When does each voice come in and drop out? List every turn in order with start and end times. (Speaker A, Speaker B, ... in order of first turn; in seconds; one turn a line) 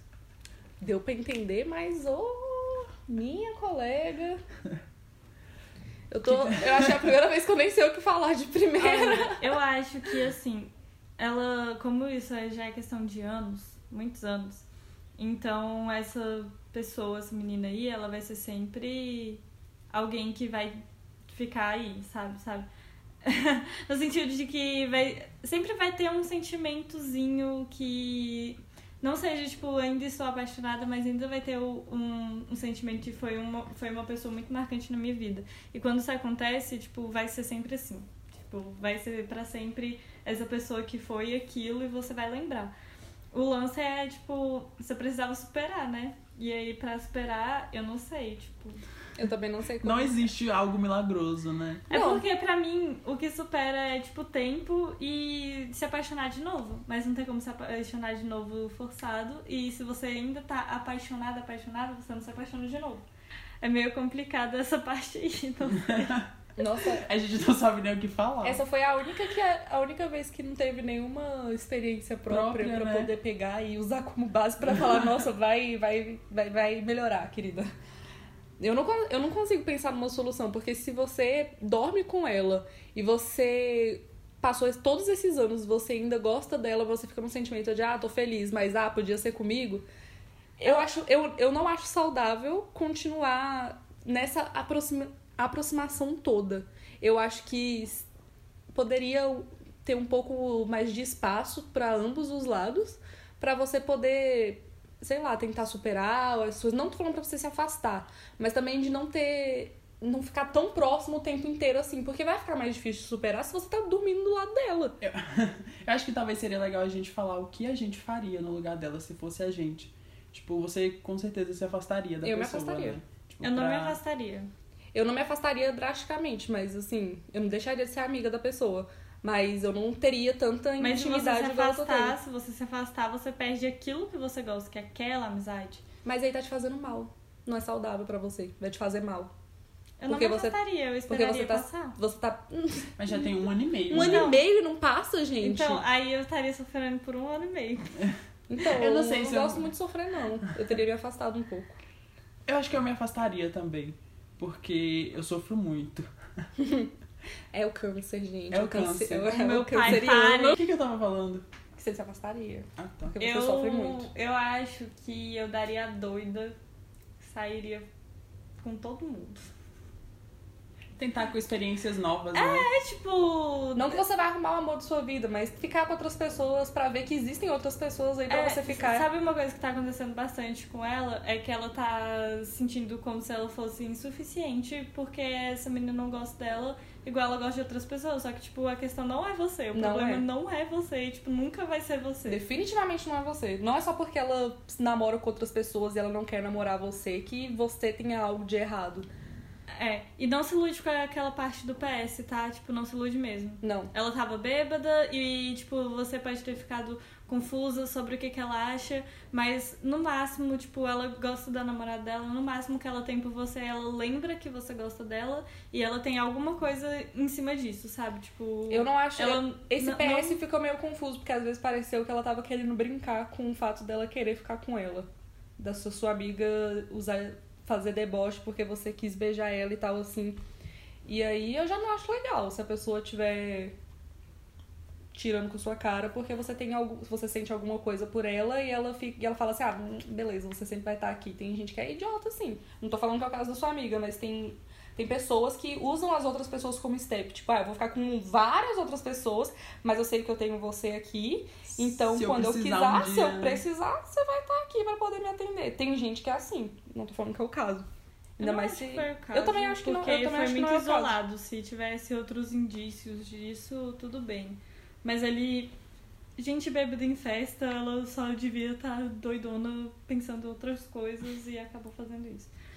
Speaker A: 0.8-4.4
Speaker A: 6.1-9.4
Speaker B: 6.3-7.1
Speaker C: 8.8-14.7
Speaker C: 15.2-22.7
Speaker C: 23.2-42.7
Speaker C: 43.3-48.8
Speaker A: 49.2-50.3
Speaker B: 49.8-51.9
Speaker C: 51.9-63.0
Speaker A: 51.9-52.2
Speaker C: 63.6-66.2
Speaker B: 65.7-66.3
Speaker A: 66.6-67.1
Speaker B: 66.9-68.6
Speaker A: 68.4-77.7
Speaker B: 72.3-73.1
Speaker A: 78.6-89.8
Speaker A: 90.6-98.1
Speaker A: 98.7-115.0
Speaker B: 115.0-124.0
Speaker A: 122.2-123.0
Speaker C: 123.4-124.5
Speaker A: 124.9-132.2
Speaker C: 130.8-135.8
Speaker A: 136.1-139.3
Speaker C: 140.0-142.0
Speaker A: 140.1-143.4
Speaker B: 143.0-144.3
Speaker A: 143.9-145.8
Speaker C: 143.9-144.4
Speaker C: 145.4-147.9
Speaker B: 148.0-149.7
Speaker A: 148.5-151.8
Speaker B: 152.5-156.1
Speaker A: 156.6-156.9
Speaker A: 157.5-160.6
Speaker B: 158.5-161.5
Speaker C: 159.3-160.6
Speaker A: 161.8-164.1
Speaker B: 162.8-163.2
Speaker C: 163.2-166.6
Speaker C: 167.2-167.9
Speaker C: 168.6-169.5
Speaker B: 171.0-172.7
Speaker C: 172.3-174.0
Speaker A: 173.8-179.1
Speaker C: 178.3-192.4
Speaker A: 189.7-190.2
Speaker A: 192.3-199.1
Speaker C: 199.7-220.4
Speaker A: 203.6-203.9
Speaker A: 218.7-230.4
Speaker A: 231.1-233.8
Speaker A: 235.1-257.9
Speaker B: 251.8-253.6
Speaker C: 258.4-265.7
Speaker A: 258.4-261.2
Speaker C: 266.4-272.5